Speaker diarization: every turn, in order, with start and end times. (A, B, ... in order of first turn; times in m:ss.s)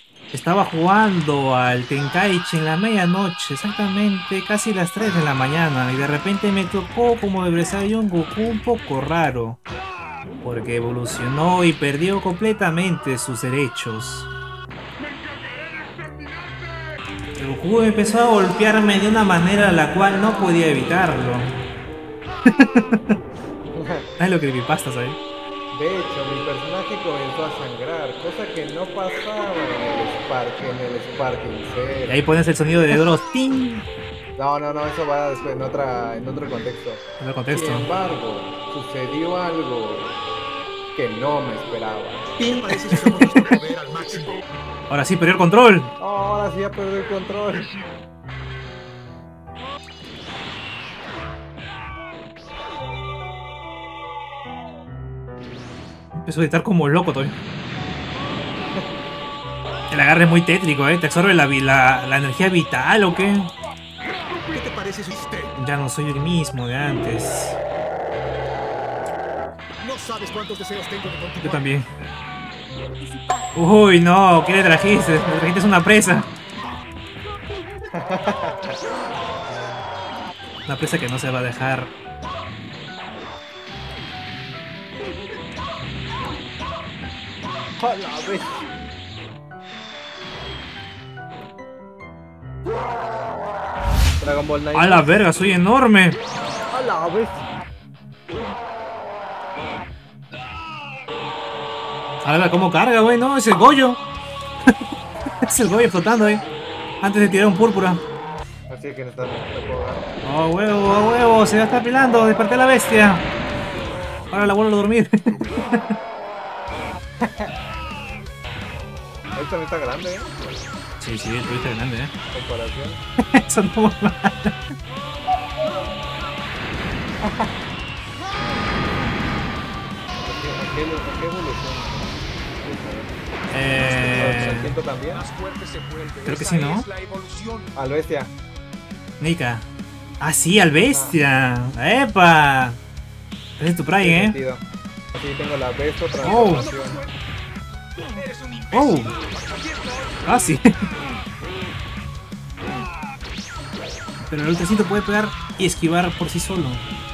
0:00.3-0:09.6 A
0:10.4-0:14.3 A
0:17.4-0:21.5 A
0:22.5-0:23.0 A
0:23.8-0:24.1 B
0:24.2-0:25.2 A
0:25.7-0:32.2 B
0:32.1-0:33.9 A
0:34.4-0:40.2 B
0:37.2-0:37.9 A
0:41.0-0:42.3 B
0:42.4-0:44.4 C
0:44.9-0:45.9 A
0:46.0-0:47.7 B
0:56.2-0:57.4 A
0:59.9-1:03.5 A
1:04.5-1:05.6 C
1:05.6-1:07.6 A
1:09.8-1:11.6 C
1:11.4-1:11.9 A
1:13.5-1:16.3 A
1:17.9-1:18.8 B
1:20.7-1:21.9 A
1:27.8-1:28.7 B
1:34.2-1:35.2 B
1:34.8-1:36.2 A
1:36.7-1:37.4 B
1:42.2-1:44.0 A
1:45.4-1:46.4 A
1:47.0-1:48.0 A
1:48.7-1:50.1 B
1:50.2-1:53.2 A
1:54.3-1:55.9 A
1:57.2-1:57.5 B
1:59.4-2:00.4 B
2:01.0-2:02.1 A
2:02.3-2:03.0 B
2:03.3-2:04.6 A
2:07.2-2:07.5 B
2:10.2-2:13.1 B
2:13.5-2:14.7 A
2:13.8-2:17.7 C
2:13.8-2:15.2 B
2:16.2-2:16.9 A
2:17.8-2:18.3 B
2:19.2-2:19.7 A
2:20.2-2:22.8 A
2:20.9-2:21.2 B
2:23.6-2:24.4 A
2:24.0-2:27.0 B
2:26.2-2:26.7 A
2:26.5-2:27.1 C
2:28.0-2:30.2 C
2:28.7-2:29.1 A
2:30.2-2:30.9 A
2:34.2-2:36.9 A